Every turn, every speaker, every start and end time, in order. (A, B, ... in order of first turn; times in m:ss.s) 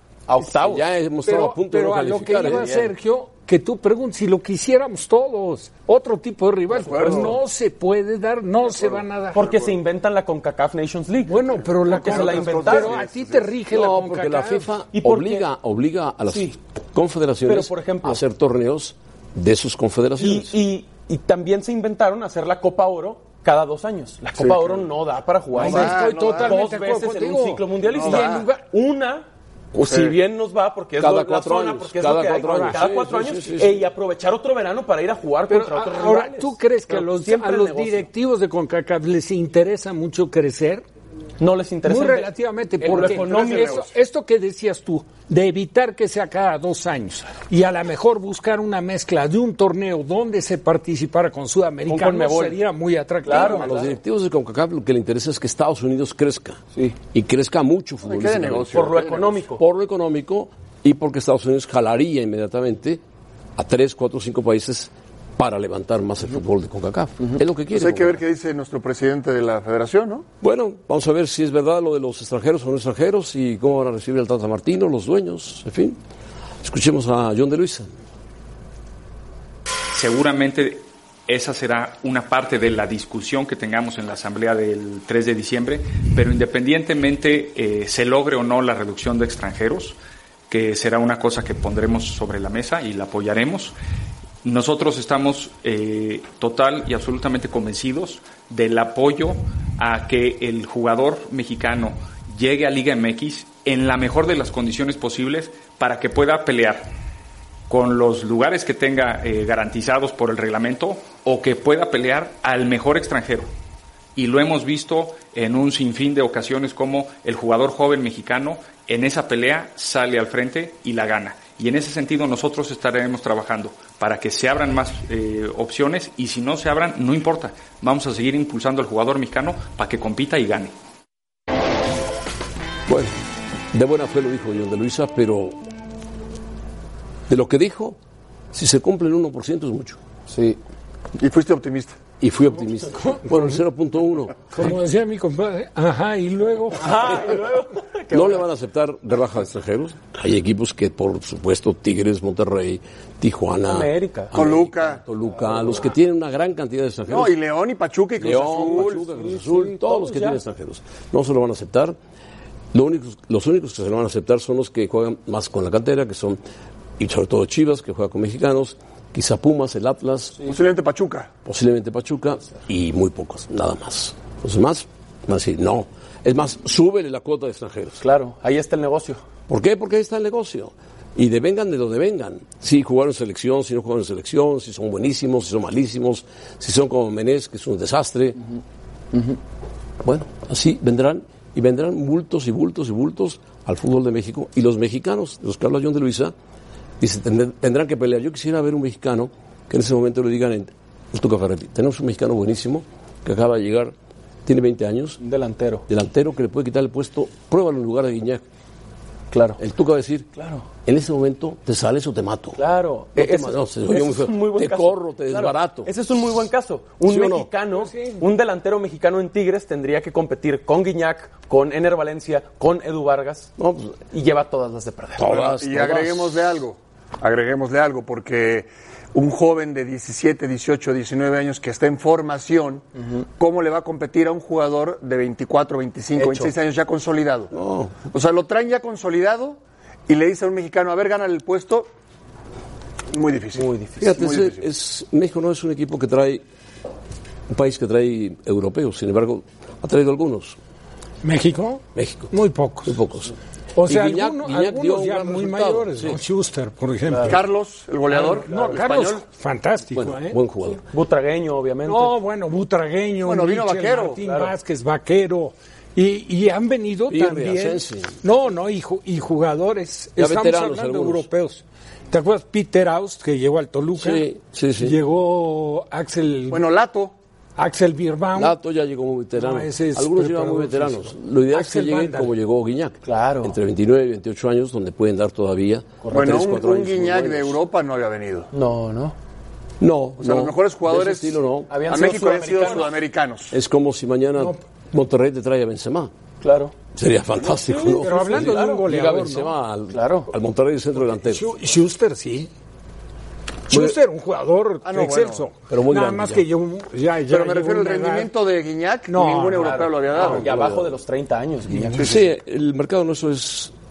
0:00.3-0:00.9 A
0:00.5-0:02.9 B
0:01.2-0:09.5 C
0:02.4-0:02.7 A
0:06.7-0:07.4 D
0:08.7-0:09.8 D
0:09.3-0:13.0 A
0:11.3-0:14.7 C
0:11.8-0:13.5 D
0:13.7-0:20.6 B
0:14.9-0:15.5 A
0:16.3-0:16.6 A
0:17.5-0:18.2 A
0:20.2-0:38.1 A
0:24.4-0:24.9 D
0:25.6-0:26.7 D
0:25.6-0:28.6 C
0:27.8-0:28.5 D
0:29.8-0:30.2 D
0:31.0-0:33.9 B
0:32.4-0:32.8 C
0:35.5-0:40.8 C
0:41.4-0:43.9 A
0:41.8-0:53.7 C
0:42.9-0:43.8 D
0:51.9-0:52.6 A
0:53.2-0:53.9 A
0:53.3-0:56.6 B
0:57.1-0:59.0 B
0:58.0-0:59.4 D
0:58.7-0:59.6 A
0:59.6-1:03.0 B
1:03.6-1:08.2 B
1:07.7-1:10.3 D
1:10.4-1:16.0 B
1:16.6-1:17.9 B
1:19.9-1:30.0 E
1:30.5-1:33.8 E
1:34.4-1:46.9 E
1:47.7-1:53.5 E
1:54.2-2:10.7 E
2:12.9-2:13.2 B
2:13.7-2:15.6 B
2:17.3-2:18.0 B
2:18.5-2:20.0 B
2:20.3-2:20.6 A
2:21.2-2:22.0 D
2:22.2-2:24.7 B
2:24.5-2:27.0 C
2:26.8-2:28.4 A
2:28.1-2:37.3 B
2:33.6-2:34.3 A
2:34.3-2:35.0 D
2:37.1-2:39.0 D
2:38.2-2:42.0 B
2:38.6-2:40.4 A
2:42.7-2:46.4 B
2:47.0-2:50.4 B
2:50.5-2:51.3 D
2:51.4-2:58.0 B
2:58.0-2:59.2 A
2:59.5-3:08.4 B
3:10.0-3:16.3 B
3:17.0-3:23.9 B
3:24.5-3:25.2 B
3:25.2-3:25.9 A
3:25.9-3:28.4 B
3:29.3-3:29.6 A
3:29.6-3:30.3 B
3:30.4-3:30.6 A
3:30.8-3:32.6 B
3:32.6-3:43.5 A
3:33.2-3:35.9 B
3:37.0-3:37.5 B
3:37.8-3:38.2 C
3:43.6-3:44.0 B
3:44.1-3:45.4 A
3:45.2-3:46.6 B
3:45.3-3:52.8 D
3:53.4-3:57.5 D
3:56.2-3:56.5 A
3:57.5-3:58.0 B
3:58.1-4:01.9 D
4:03.1-4:04.6 D
4:03.6-4:04.1 A
4:04.0-4:06.4 B
4:07.5-4:10.6 B
4:11.2-4:13.0 C
4:12.0-4:12.3 B
4:12.8-4:13.3 B
4:13.8-4:17.4 C
4:13.8-4:16.2 B
4:17.1-4:17.4 A
4:17.3-4:19.2 D
4:18.1-4:20.4 C
4:18.5-4:18.8 A
4:19.9-4:20.8 B
4:20.9-4:22.2 A
4:21.9-4:34.3 C
4:23.2-4:24.2 D
4:24.2-4:24.5 A
4:27.1-4:28.1 B
4:30.2-4:31.3 B
4:34.0-4:35.0 B
4:34.8-4:36.6 C
4:36.5-4:37.1 D
4:37.6-4:38.6 C
4:38.4-4:47.6 B
4:39.4-4:42.3 C
4:43.0-4:43.6 A
4:46.0-4:46.4 A
4:46.1-4:48.5 D
4:48.5-4:49.2 A
4:49.8-4:51.7 B
4:50.2-4:53.5 D
4:51.7-4:53.0 A
4:53.5-4:56.1 B
4:56.4-4:56.7 A
4:57.0-5:01.5 B
4:57.4-4:58.9 A
4:57.9-4:59.5 C
4:59.9-5:00.3 A
5:01.2-5:02.5 C
5:03.7-5:08.3 C
5:03.7-5:04.0 B
5:04.8-5:05.5 D
5:05.7-5:06.4 B
5:07.3-5:10.5 D
5:09.1-5:09.8 C
5:09.6-5:12.1 A
5:10.2-5:10.9 B
5:12.0-5:12.2 D
5:12.0-5:13.7 B